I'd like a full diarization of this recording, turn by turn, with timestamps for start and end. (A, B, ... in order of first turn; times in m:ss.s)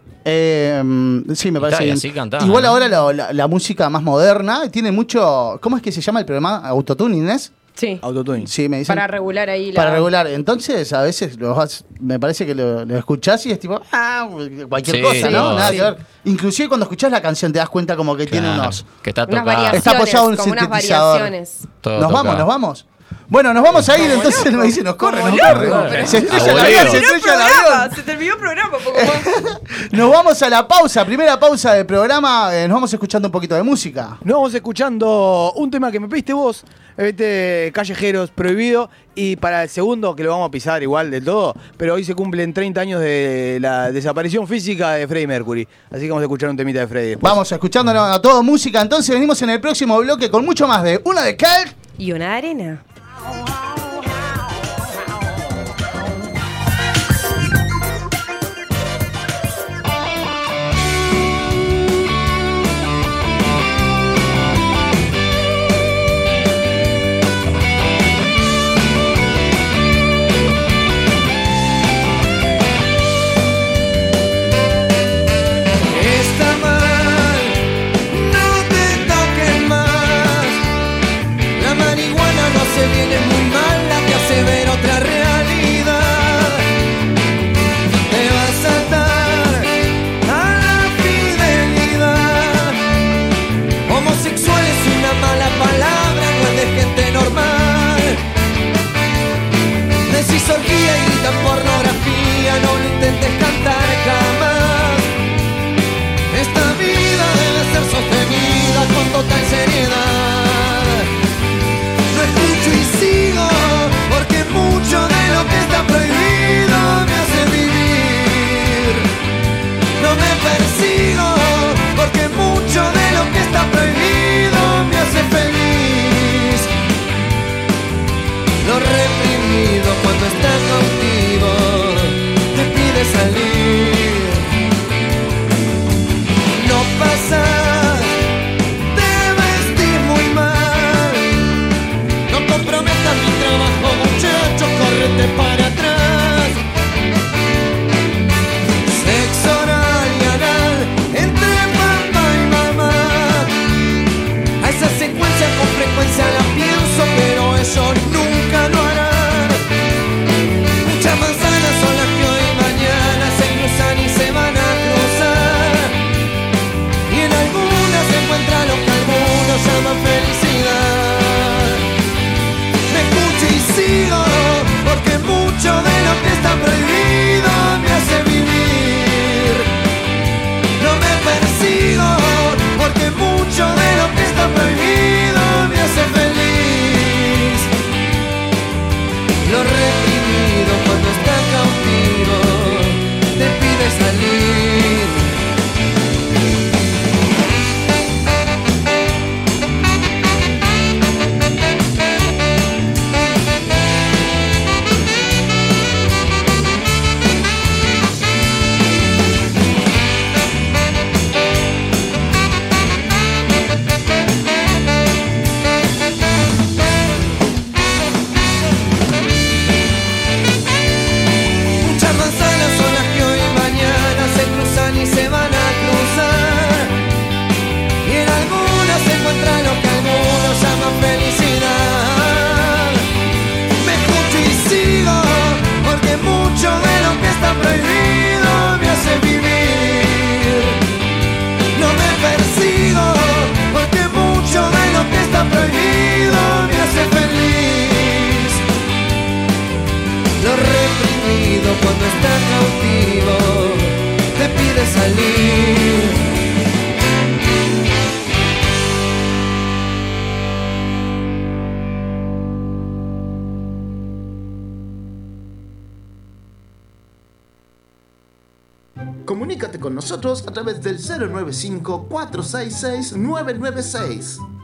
0:00.2-0:07.5 A
0:01.6-0:02.8 B
0:07.8-0:08.0 C
0:08.0-0:08.5 D
0:08.4-0:09.0 A
0:08.9-0:10.1 C
0:09.7-0:18.8 A
0:14.8-0:15.9 B
0:15.2-0:15.9 C
0:18.3-0:19.8 B
0:19.3-0:21.7 C
0:19.7-0:21.3 A
0:21.8-0:22.5 B
0:22.0-0:27.9 A
0:23.9-0:29.3 C
0:25.4-0:27.0 B
0:28.9-0:34.2 A
0:34.2-0:47.4 D
0:47.2-0:51.7 A
0:52.0-0:52.8 C
1:15.9-1:17.6 E
1:18.1-1:20.6 E
1:21.6-1:26.7 E
1:28.1-1:32.8 E
1:33.9-1:38.2 E
1:40.0-1:45.1 E
1:46.3-1:51.1 E
1:52.1-1:59.1 E
2:00.0-2:06.7 E
2:08.6-2:14.5 E
2:16.5-2:18.1 E
2:18.9-2:21.4 E
2:22.3-2:26.6 E
2:28.8-2:33.5 E
2:34.6-2:39.6 E
2:40.8-2:45.9 E
2:47.1-2:51.8 E
2:52.9-2:59.6 E
3:00.8-3:07.7 E
3:09.4-3:15.3 E
3:41.8-3:46.9 E
3:48.0-3:53.0 E
3:53.8-4:00.8 E
4:01.7-4:08.6 E
4:10.4-4:16.2 E
4:29.3-4:34.4 F